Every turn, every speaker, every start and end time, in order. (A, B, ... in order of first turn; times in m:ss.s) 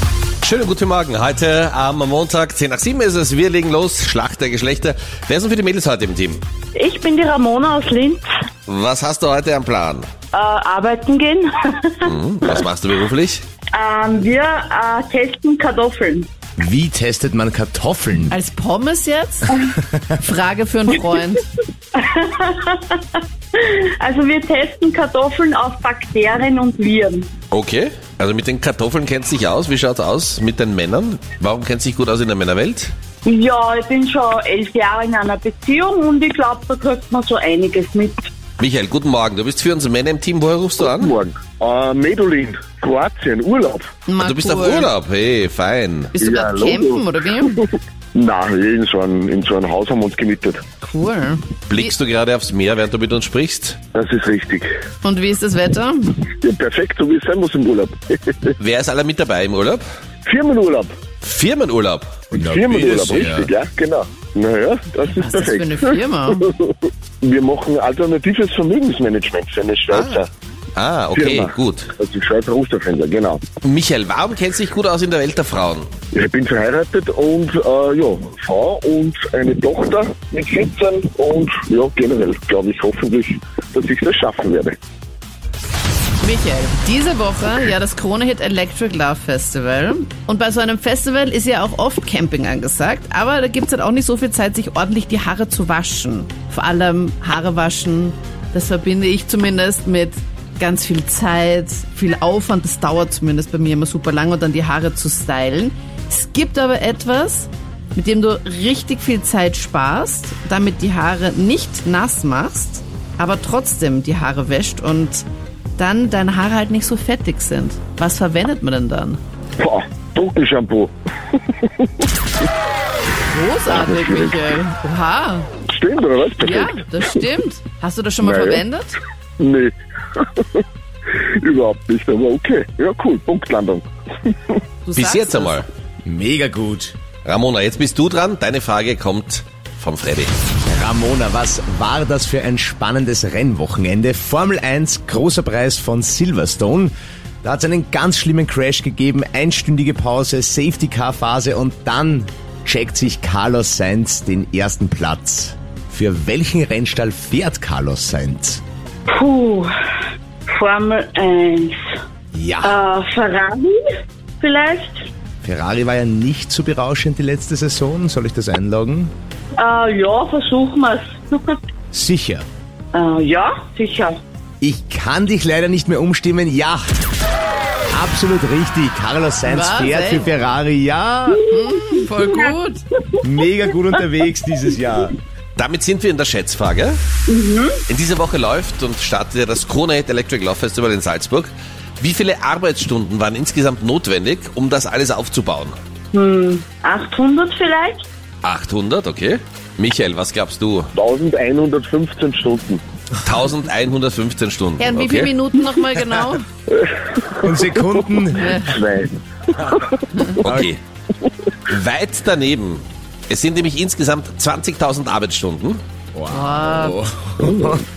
0:00.4-0:06.4 A
0:06.8-0:08.3 B
0:08.7-0:10.1 A
0:10.3-0:12.1 B
0:12.0-0:13.4 A
0:13.7-0:16.3 B
0:16.6-0:18.4 C
0:18.3-0:21.4 D
0:21.9-0:27.3 B
0:27.5-0:32.9 A
0:33.2-0:38.2 B
0:38.6-0:41.2 A
0:40.8-0:43.9 E
0:44.1-0:44.9 D
0:44.2-0:46.1 A
0:46.1-0:47.6 D
0:46.2-0:50.6 E
0:50.8-0:51.9 D
0:51.7-0:53.8 A
0:53.9-0:54.7 E
0:55.0-0:56.2 D
0:56.4-0:58.6 E
0:58.6-0:59.8 A
1:00.2-1:00.9 E
1:01.2-1:02.2 A
1:02.3-1:10.3 E
1:02.3-1:03.5 C
1:05.1-1:06.5 D
1:09.9-1:10.2 A
1:10.8-1:11.9 A
1:11.1-1:13.4 E
1:13.6-1:15.9 A
1:16.1-1:24.8 E
1:26.2-1:55.2 D
1:55.8-1:59.2 D
1:59.6-2:00.9 E
2:03.3-2:05.5 D
2:03.7-2:04.4 E
2:05.7-2:07.2 E
2:06.4-2:09.0 D
2:08.2-2:08.6 E
2:09.4-2:14.6 E
2:14.8-2:15.7 D
2:15.0-2:15.7 A
2:16.0-2:17.0 C
2:17.2-2:20.3 A
2:20.7-2:38.6 C
2:39.1-2:39.7 B
2:40.5-2:42.0 B
2:42.3-2:42.8 C
2:42.6-2:43.8 B
2:44.4-2:45.1 B
2:45.4-2:49.1 C
2:49.6-2:51.6 B
2:51.9-2:52.5 C
2:52.9-2:54.2 B
2:54.6-2:56.9 C
2:57.9-3:01.4 C
2:59.4-3:00.4 D
3:01.3-3:02.8 D
3:01.9-3:02.5 B
3:03.2-3:05.2 C
3:05.6-3:07.0 A
3:07.3-3:07.8 B
3:07.9-3:15.8 A
3:16.1-3:18.1 B
3:18.4-3:20.9 A
3:21.0-3:22.8 E
3:23.2-3:25.3 A
3:24.8-3:26.4 D
3:26.8-3:30.5 E
3:27.4-3:28.6 C
3:28.4-3:28.7 D
3:30.1-3:30.4 D
3:30.4-3:30.8 A
3:30.4-3:30.7 C
3:31.7-3:35.8 A
3:36.1-3:37.8 C
3:36.3-3:37.0 D
3:37.4-3:37.8 E